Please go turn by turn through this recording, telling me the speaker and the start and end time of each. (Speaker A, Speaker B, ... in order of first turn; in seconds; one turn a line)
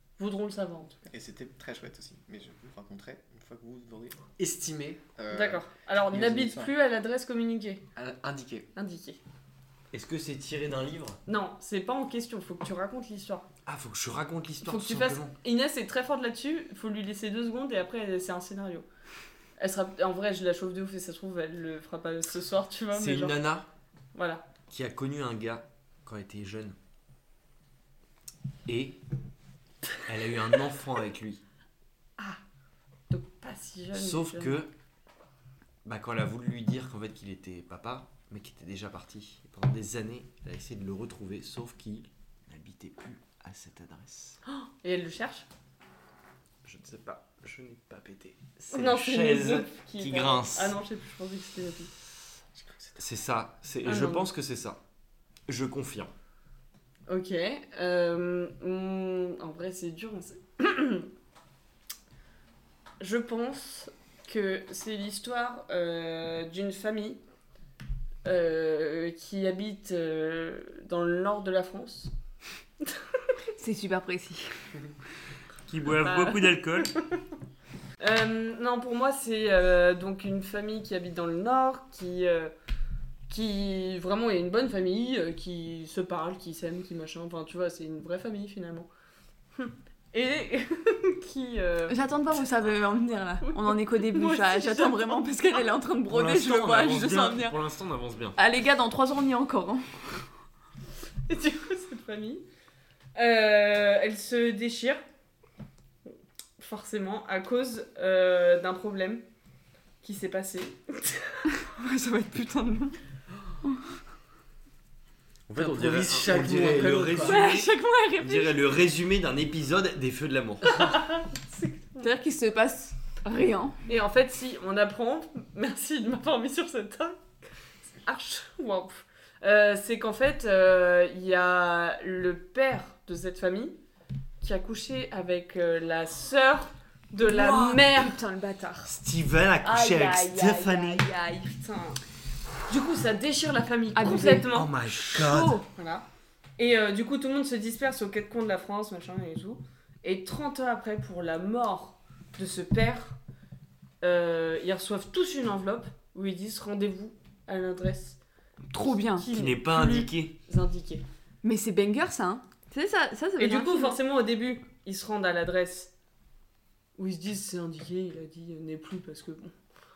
Speaker A: 0.2-1.1
Speaker B: 1.1-6.7
Speaker A: 5.3-7.8
Speaker B: 7.9-8.7
Speaker A: 8.8-9.2
Speaker C: 9.9-11.2
Speaker A: 11.2-13.5
Speaker C: 13.6-15.3
Speaker A: 14.6-18.9
Speaker A: 19.6-23.4
Speaker C: 22.9-23.7
Speaker A: 24.1-24.4
Speaker C: 24.7-26.8
Speaker C: 28.6-29.0
Speaker C: 30.0-31.4
Speaker A: 33.1-34.6
Speaker C: 33.9-34.7
Speaker C: 35.8-44.4
Speaker A: 44.5-45.5
Speaker C: 46.6-50.8
Speaker A: 48.7-51.9
Speaker B: 52.5-53.0
Speaker C: 53.0-54.8
Speaker A: 53.8-54.3
Speaker C: 55.5-56.1
Speaker A: 57.1-61.1
Speaker A: 63.0-67.2
Speaker A: 68.2-72.1
Speaker D: 73.5-74.5
Speaker C: 75.7-77.0
Speaker A: 76.0-76.6
Speaker A: 78.0-82.5
Speaker A: 83.3-88.9
Speaker A: 89.5-92.0
Speaker D: 91.9-97.6
Speaker A: 93.4-95.2
Speaker C: 96.1-98.4
Speaker D: 98.4-100.2
Speaker A: 101.3-102.4
Speaker A: 103.1-105.0
Speaker A: 106.6-109.2
Speaker A: 110.0-111.4
Speaker D: 111.6-113.0
Speaker C: 115.5-121.0
Speaker B: 115.5-117.5
Speaker D: 117.2-118.5
Speaker A: 120.7-122.1
Speaker D: 122.0-123.8
Speaker A: 123.9-127.2
Speaker A: 128.0-133.8
Speaker A: 134.4-138.2
Speaker D: 137.2-138.9
Speaker C: 138.9-141.1
Speaker D: 139.6-141.5
Speaker A: 141.4-142.0
Speaker A: 142.7-144.7
Speaker D: 143.9-145.7
Speaker C: 144.0-145.6
Speaker A: 145.7-146.0
Speaker A: 146.6-153.2
Speaker A: 154.0-158.2
Speaker D: 158.7-159.3
Speaker A: 159.2-161.0
Speaker C: 159.2-160.3
Speaker D: 161.4-164.0
Speaker A: 163.4-165.9
Speaker A: 167.0-169.5